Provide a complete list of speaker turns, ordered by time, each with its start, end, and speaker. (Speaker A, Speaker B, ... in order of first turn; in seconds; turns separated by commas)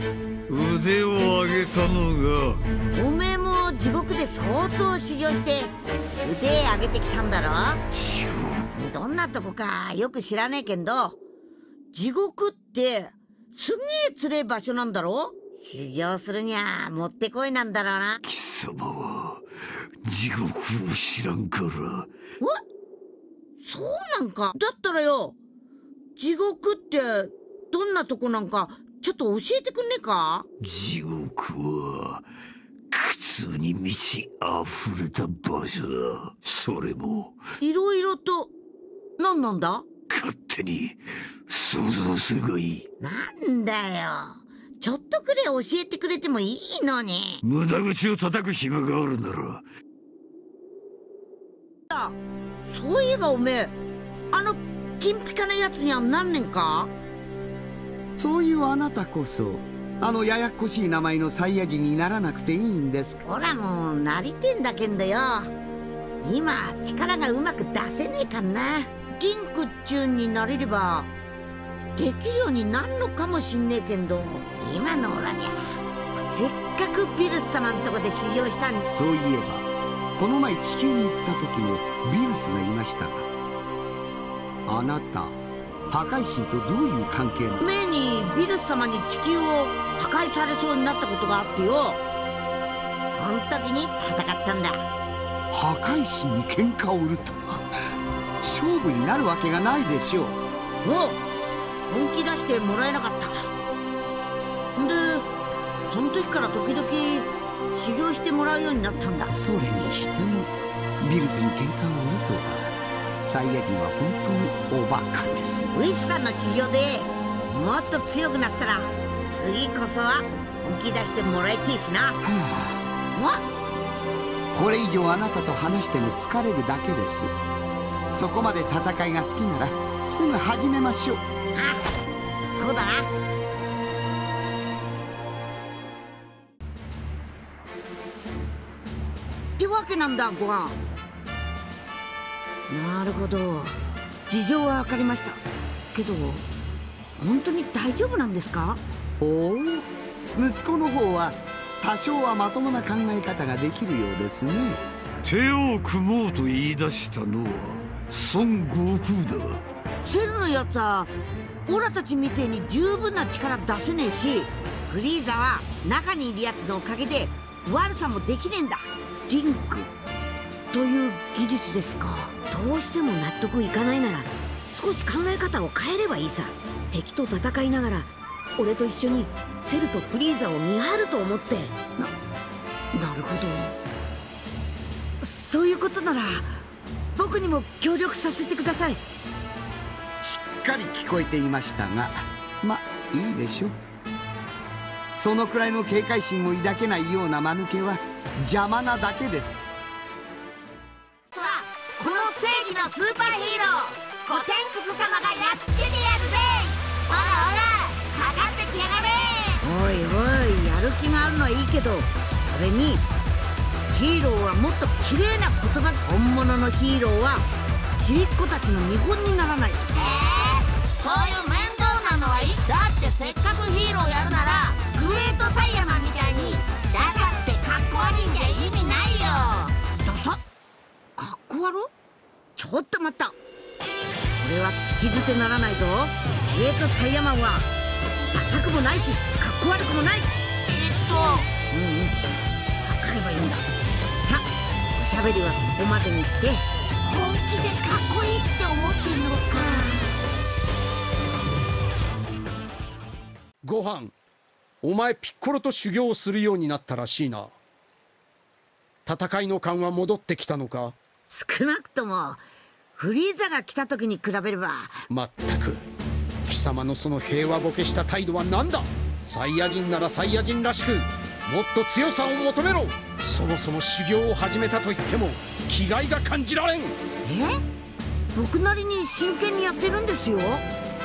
Speaker A: 0.5-2.6, Speaker B: 2.9-7.8, Speaker A: 7.9-8.7, Speaker B: 8.7-11.2, Speaker B: 11.9-18.2, Speaker A: 18.2-19.4, Speaker A: 20.0-22.1, Speaker B: 23.6-25.4, Speaker B: 26.1-30.5, Speaker A: 30.6-32.2, Speaker A: 32.9-37.4, Speaker B: 37.6-38.5, Speaker B: 39.2-39.9, Speaker A: 40.1-42.8, Speaker B: 43.0-47.4, Speaker A: 47.4-49.6, Speaker B: 51.9-53.8, Speaker B: 54.3-56.9, Speaker C: 58.1-63.2, Speaker B: 63.2-65.5, Speaker B: 66.2-71.1, Speaker B: 72.0-75.7, Speaker B: 76.2-78.9, Speaker C: 78.8-83.3, Speaker C: 84.7-87.6, Speaker B: 87.6-92.0, Speaker B: 93.1-94.8, Speaker C: 95.5-97.6, Speaker C: 98.4-100.4, Speaker B: 100.8-101.2, Speaker B: 101.9-103.5, Speaker B: 104.8-105.3, Speaker B: 105.8-109.3, Speaker C: 109.3-112.7, Speaker C: 113.2-115.7, Speaker B: 115.7-122.2, Speaker C: 122.2-122.8, Speaker B: 123.1-123.4, Speaker C: 124.5-127.3, Speaker C: 128.1-131.2, Speaker B: 131.5-131.9, Speaker B: 132.5-133.1, Speaker B: 139.6-140.8, Speaker B: 142.7-143.8, Speaker B: 144.3-146.5, Speaker B: 147.2-148.8, Speaker C: 149.2-154.8, Speaker A: 155.2-159.6, Speaker B: 160.0-161.1, Speaker B: 161.7-169.9, Speaker B: 170.7-172.3, Speaker D: 172.5-181.7, Speaker B: 182.9-183.8, Speaker B: 185.2-186.5, Speaker B: 187.2-189.0, Speaker C: 190.2-193.8, Speaker C: 195.2-199.6, Speaker B: 201.3-213.1, Speaker B: 213.9-230.4, Speaker B: 231.2-231.9, Speaker B: 232.6-233.4, Speaker B: 234.4-237.7, Speaker B: 238.3-242.1, Speaker B: 242.8-243.6, Speaker B: 244.2-250.1, Speaker E: 253.6-254.1, Speaker E: 254.8-257.5, Speaker E: 259.1-260.9, Speaker B: 261.3-262.4, Speaker B: 262.9-265.0, Speaker E: 265.1-265.8, Speaker E: 266.4-277.0, Speaker B: 277.2-277.6, Speaker B: 278.3-280.6